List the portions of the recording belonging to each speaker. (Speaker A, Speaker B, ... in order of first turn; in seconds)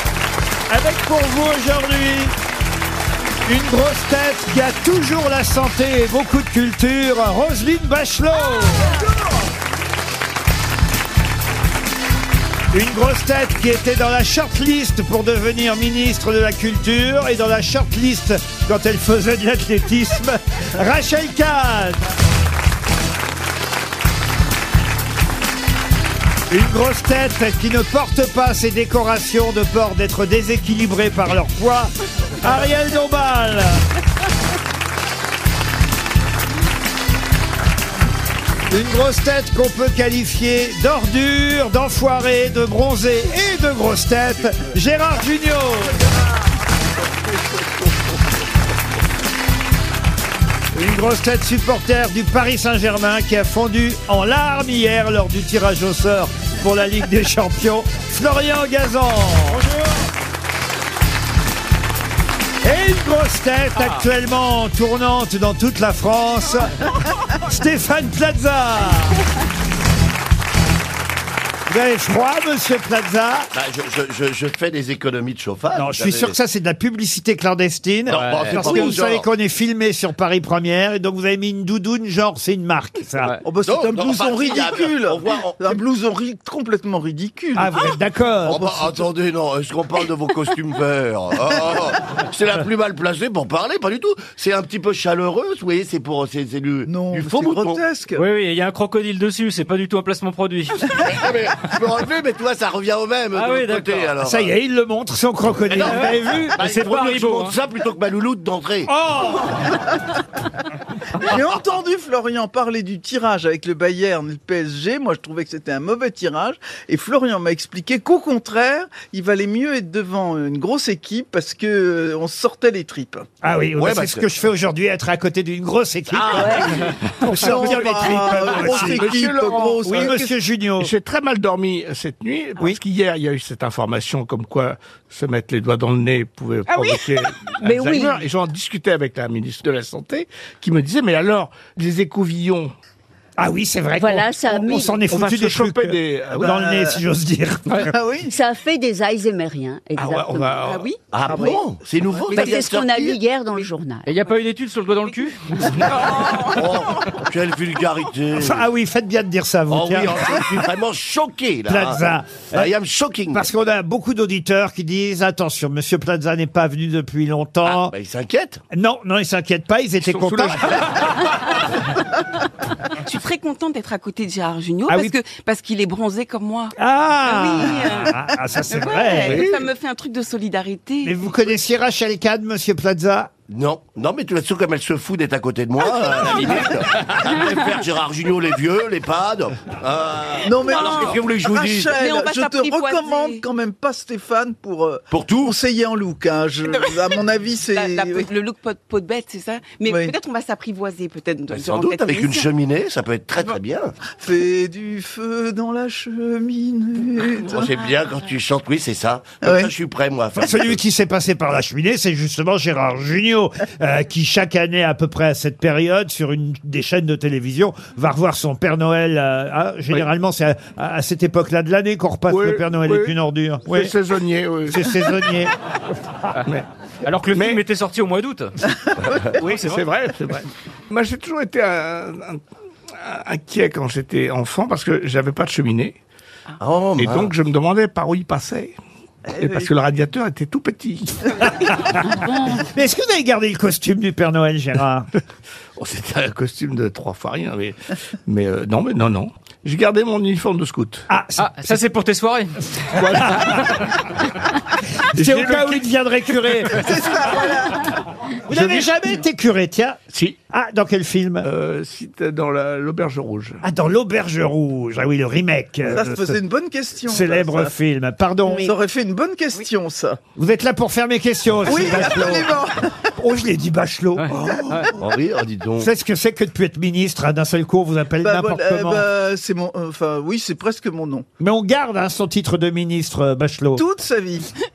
Speaker A: 0.7-2.3, 3.5-9.0, 12.7-22.1, 26.5-33.8, 38.7-46.0, 50.7-59.7, 62.6-69.2, 71.7-73.5, 75.7-83.4, 87.5-89.0, 104.2-106.9, 108.9-109.7, 123.4-129.1, 129.8-130.9, 143.4-147.9, 158.3-160.7, 161.7-162.7, 163.2-167.9, 168.7-170.8, 174.9-175.1, 176.8-179.5, 181.0-183.3, 210.3-223.9, 224.7-225.5, 241.6-245.1, 251.1-251.8, 253.2-253.9, 255.0-256.9, 258.5-261.5, 263.6-266.4, 267.0-268.7, 270.3-272.5, 273.1-274.3, 275.8-279.0, 281.4-283.8
Speaker B: 8.8-9.4, 83.4-87.8, 96.8-98.2, 111.2-123.2, 127.3-130.3, 146.3-147.0, 147.9-148.3, 190.4-198.3, 199.9-200.1, 204.2-207.7, 209.4-209.7, 239.4-239.7, 256.8-258.0, 265.9-267.7, 268.6-270.2, 271.6-273.1, 274.3-274.9, 278.2-281.2, 283.8-284.5
Speaker C: 73.5-76.4, 78.1-79.2, 83.6-85.8, 88.4-97.8, 100.8-104.5, 105.6-108.9, 123.7-124.2, 126.1-126.7, 127.5-129.7, 151.1-153.2, 156.5-158.7, 159.7-163.5, 167.6-168.6, 179.2-179.7, 183.5-192.0, 195.1-195.6, 201.5-203.9, 207.4-210.8, 229.0-229.4, 236.6-237.3, 274.9-275.9
Speaker D: 78.1-79.0, 98.2-101.0, 103.3-104.1, 105.7-107.6, 154.0-155.9, 227.0-228.6, 229.4-229.8, 251.4-253.9, 274.2-274.9
Speaker E: 127.3-127.8, 128.9-129.3, 130.8-142.7, 145.1-146.5, 150.0-150.9, 170.1-170.6, 222.3-225.0, 227.3-227.7, 229.4-232.4, 233.0-236.0, 237.0-238.8, 239.3-241.5, 245.8-251.1, 252.9-253.6, 255.1-255.9, 258.5-258.9, 260.1-260.4, 261.4-263.6
Speaker F: 137.6-138.2, 144.0-145.1, 148.2-150.7, 152.3-154.1
Speaker G: 150.6-151.6, 155.8-157.1, 173.0-181.2, 190.6-191.2, 191.9-193.4, 196.7-197.0, 197.7-202.5, 207.7-208.2